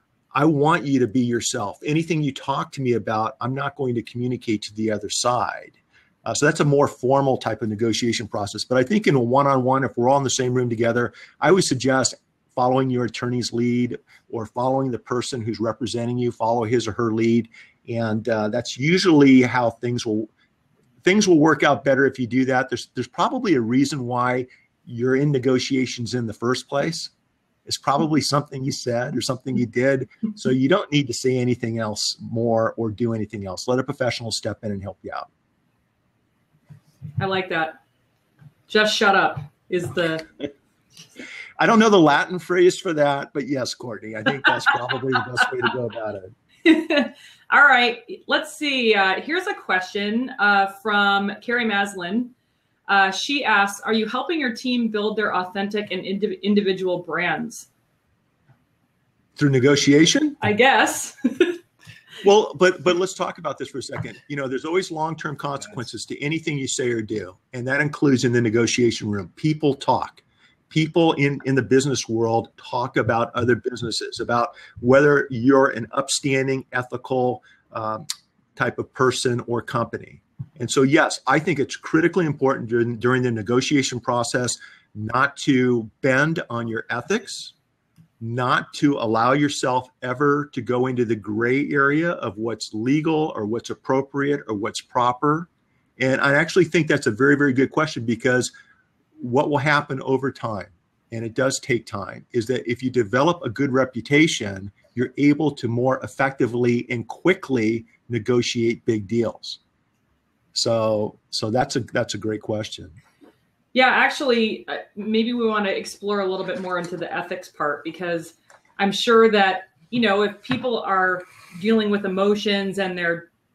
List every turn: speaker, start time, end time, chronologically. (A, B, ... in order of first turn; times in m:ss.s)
0:00.3-0:20.3 A
0:21.0-0:27.1 A
0:27.6-0:35.3 A
0:37.2-0:37.8 B
0:38.7-0:40.3 B
0:41.6-0:46.3 A
0:46.6-0:52.3 B
0:52.9-0:57.7 B
0:59.4-1:00.4 A
1:00.4-1:01.6 B
1:02.2-1:18.0 A
1:18.6-1:27.5 A
1:28.2-1:38.5 A
1:39.2-1:49.6 A
1:50.5-1:52.9 A
1:53.7-2:03.3 B